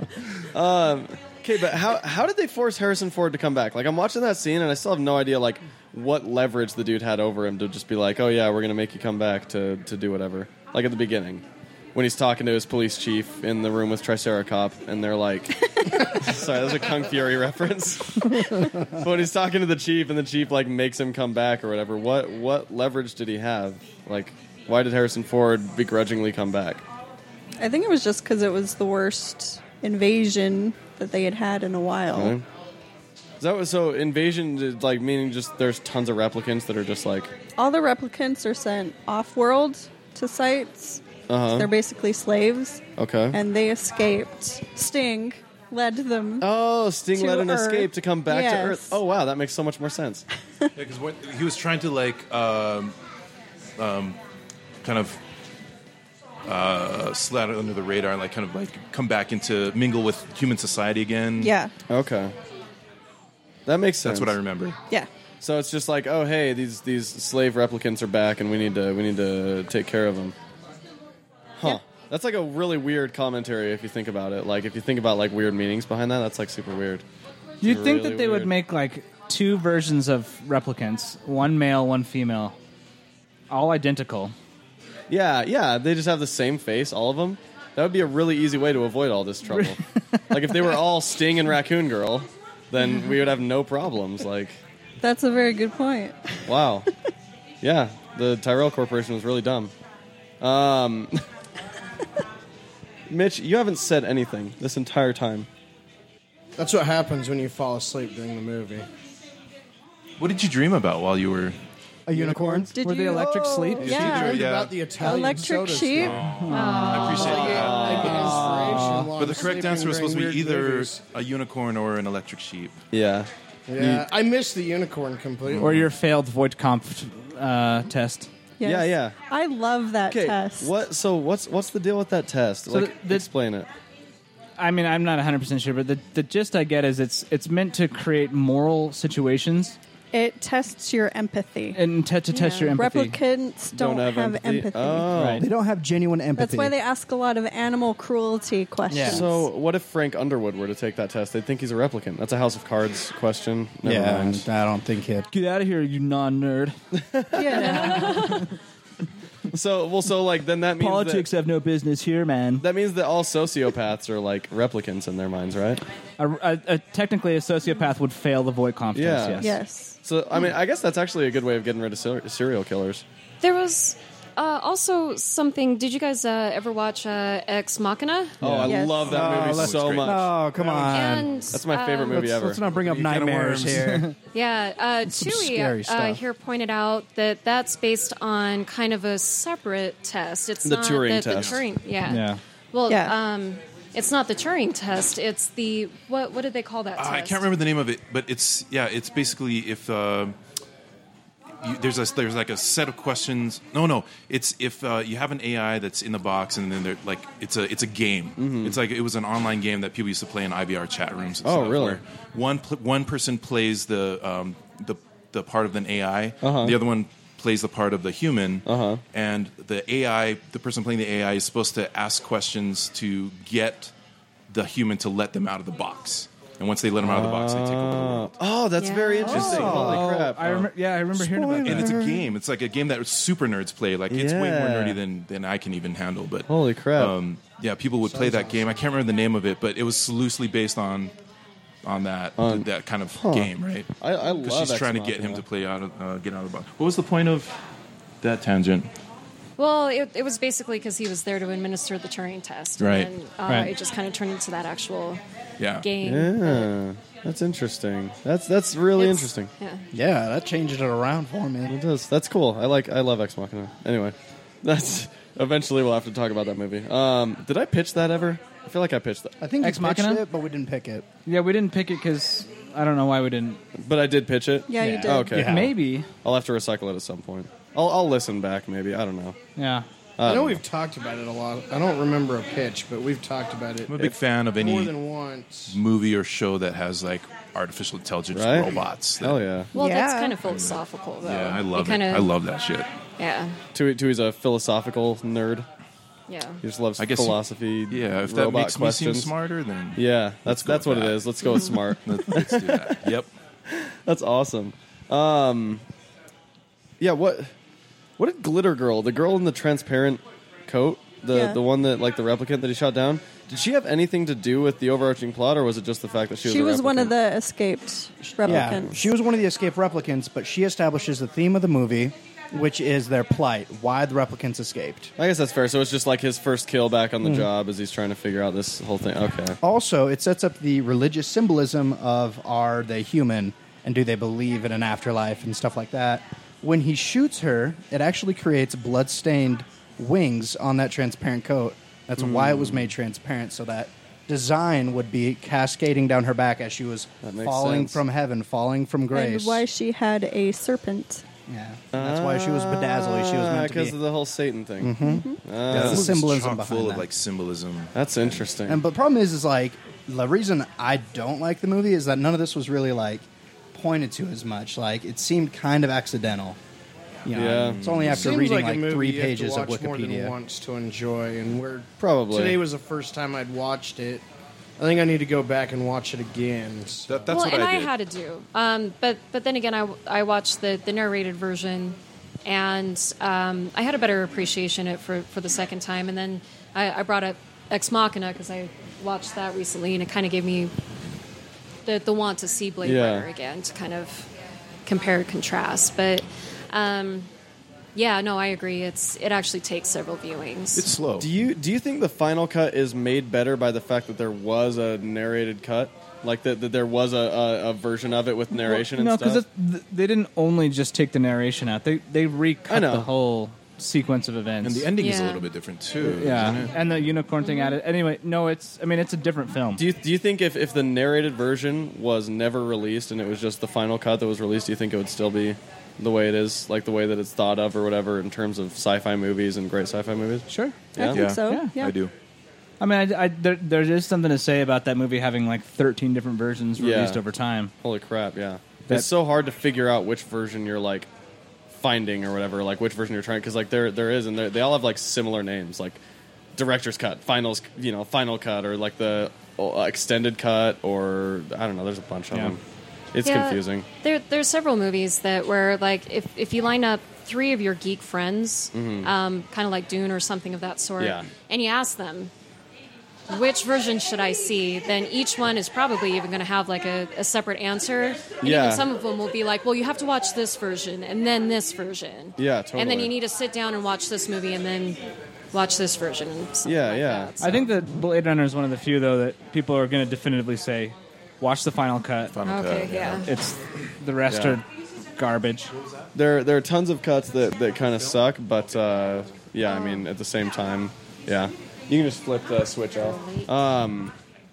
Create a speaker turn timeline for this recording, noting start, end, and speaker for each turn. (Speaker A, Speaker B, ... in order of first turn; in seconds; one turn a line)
Speaker A: 0.4-26.8
Speaker B: 27.6-32.4
Speaker A: 32.1-32.5
Speaker A: 33.4-37.3
Speaker B: 37.6-42.8
Speaker A: 41.3-41.7
Speaker A: 43.0-43.4
Speaker B: 43.3-46.5
Speaker A: 46.4-50.2
Speaker B: 47.1-49.0
Speaker C: 50.8-53.0
Speaker C: 53.8-54.2
Speaker C: 54.8-55.2
Speaker C: 56.5-61.5
Speaker B: 61.4-61.7
Speaker A: 61.9-62.3
Speaker A: 63.7-64.4
Speaker C: 64.0-64.8
Speaker A: 65.4-70.3
Speaker A: 71.6-77.0
Speaker D: 77.6-82.6
Speaker A: 77.6-78.5
Speaker D: 83.5-84.3
Speaker A: 85.1-89.8
Speaker D: 89.5-90.6
Speaker A: 90.3-94.6
Speaker B: 95.0-96.5
Speaker A: 96.5-96.9
Speaker A: 97.6-99.7
Speaker A: 100.4-101.2
Speaker A: 103.1-105.5
Speaker E: 106.6-108.9
Speaker C: 110.2-111.6
Speaker F: 112.1-112.7
Speaker A: 112.2-112.7
Speaker B: 112.7-114.4
Speaker D: 112.8-114.2
Speaker C: 113.8-114.9
Speaker E: 114.0-116.3
Speaker B: 115.0-117.4
Speaker C: 116.0-122.8
Speaker D: 116.4-119.1
Speaker G: 116.5-117.7
Speaker E: 117.2-121.1
Speaker A: 117.4-118.9
Speaker A: 122.9-124.0
Speaker E: 123.7-125.8
Speaker C: 125.5-125.9
Speaker D: 125.6-128.3
Speaker B: 128.6-130.7
Speaker A: 128.6-129.2
Speaker A: 130.1-133.7
Speaker D: 132.7-133.3
Speaker D: 134.6-139.8
Speaker B: 140.1-141.8
Speaker D: 141.7-143.2
Speaker G: 142.3-142.7
Speaker B: 142.7-145.2
Speaker A: 143.7-145.5
Speaker D: 145.1-145.5
Speaker F: 145.3-146.8
Speaker B: 146.4-149.5
Speaker F: 148.9-149.3
Speaker A: 149.1-154.5
Speaker F: 153.8-155.3
Speaker D: 155.3-156.8
Speaker A: 156.9-157.9
Speaker B: 157.3-158.3
Speaker G: 157.5-158.4
Speaker D: 158.0-158.5
Speaker A: 159.5-161.3
Speaker D: 160.8-162.7
Speaker A: 162.6-165.8
Speaker D: 166.2-169.6
Speaker A: 168.9-173.0
Speaker B: 169.4-170.0
Speaker G: 173.4-178.4
Speaker A: 178.4-183.8
Speaker F: 178.4-181.4
Speaker C: 178.5-180.2
Speaker B: 178.7-179.1
Speaker G: 180.9-182.4
Speaker F: 182.0-184.1
Speaker C: 183.1-183.9
Speaker G: 184.3-197.5
Speaker F: 185.1-186.2
Speaker A: 190.6-191.6
Speaker C: 191.3-191.6
Speaker D: 192.1-192.4
Speaker B: 192.9-193.1
Speaker C: 197.0-200.4
Speaker C: 201.6-223.9
Speaker A: 208.4-208.8
Speaker A: 211.4-212.0
Speaker A: 216.4-216.8
Speaker A: 218.7-219.0
Speaker C: 224.5-228.3
Speaker A: 227.0-230.7
Speaker G: 228.8-229.6
Speaker F: 229.2-230.1
Speaker D: 229.3-232.0
Speaker C: 229.5-229.8
Speaker F: 231.2-232.3
Speaker C: 231.6-241.1
Speaker A: 234.1-235.0
Speaker A: 236.5-237.2
Speaker E: 238.0-238.9
Speaker C: 241.8-247.6
Speaker A: 242.4-245.4
Speaker C: 248.2-248.9
Speaker G: 249.6-255.2
Speaker C: 252.8-253.1
Speaker C: 255.6-255.9
Speaker G: 255.8-256.7
Speaker A: 256.0-259.5
Speaker G: 258.9-259.9
Speaker F: 259.9-261.8
Speaker A: 261.7-269.4
Speaker F: 269.4-271.1
Speaker D: 269.6-270.2
Speaker D: 271.3-273.6
Speaker A: 273.8-275.7
Speaker B: 274.7-275.5
Speaker F: 274.8-275.7
Speaker D: 275.3-276.1
Speaker A: 276.2-279.4
Speaker D: 279.6-279.9
Speaker A: 280.2-280.6
Speaker E: 280.2-285.8
Speaker C: 283.9-284.9
Speaker C: 285.7-289.4
Speaker A: 288.3-289.7
Speaker G: 289.7-292.3
Speaker B: 289.8-290.4
Speaker C: 290.5-292.9
Speaker G: 293.2-293.6
Speaker A: 293.7-295.7
Speaker G: 296.3-296.6
Speaker A: 296.6-299.3
Speaker C: 297.0-303.3
Speaker A: 300.0-303.1
Speaker A: 303.7-305.8
Speaker A: 307.0-307.5
Speaker A: 308.2-317.1
Speaker B: 311.3-311.6
Speaker B: 316.4-319.0
Speaker F: 318.4-325.1
Speaker A: 318.4-319.0
Speaker A: 325.2-329.6
Speaker F: 327.2-327.5
Speaker F: 329.6-349.6
Speaker A: 342.2-342.9
Speaker A: 347.2-348.0
Speaker B: 349.1-351.2
Speaker F: 351.5-354.0
Speaker A: 351.9-356.1
Speaker F: 354.8-357.1
Speaker B: 355.0-355.4
Speaker C: 355.7-358.4
Speaker A: 357.9-358.8
Speaker F: 358.7-366.6
Speaker F: 367.2-370.4
Speaker A: 367.3-368.1
Speaker C: 367.4-368.3
Speaker E: 368.1-374.2
Speaker A: 372.0-372.6
Speaker E: 374.8-377.3
Speaker C: 377.1-377.9
Speaker G: 377.3-390.7
Speaker G: 391.9-394.3
Speaker A: 392.8-393.3
Speaker G: 394.9-397.3
Speaker G: 397.9-400.9
Speaker C: 400.8-401.3
Speaker A: 401.1-409.4
Speaker D: 408.5-414.9
Speaker A: 412.7-413.1
Speaker C: 414.6-416.7
Speaker G: 415.0-415.5
Speaker D: 416.0-419.8
Speaker G: 417.4-417.8
Speaker A: 419.8-431.3
Speaker D: 430.5-430.8
Speaker B: 431.0-431.9
Speaker C: 431.1-432.1
Speaker D: 431.5-431.7
Speaker D: 432.8-437.7
Speaker A: 436.8-437.2
Speaker A: 437.8-441.1
Speaker A: 441.8-446.0
Speaker A: 446.6-452.6
Speaker A: 453.1-453.9
Speaker G: 453.2-462.3
Speaker A: 458.7-459.1
Speaker A: 461.0-461.3
Speaker G: 463.3-475.0
Speaker A: 468.4-468.8
Speaker A: 472.4-473.1
Speaker G: 475.5-477.7
Speaker A: 476.6-477.3
Speaker D: 477.4-482.4
Speaker C: 482.3-483.3
Speaker G: 482.4-483.3
Speaker D: 483.2-484.6
Speaker A: 484.3-484.6
Speaker D: 485.2-485.7
Speaker A: 486.1-494.1
Speaker G: 489.7-490.0
Speaker G: 493.1-493.5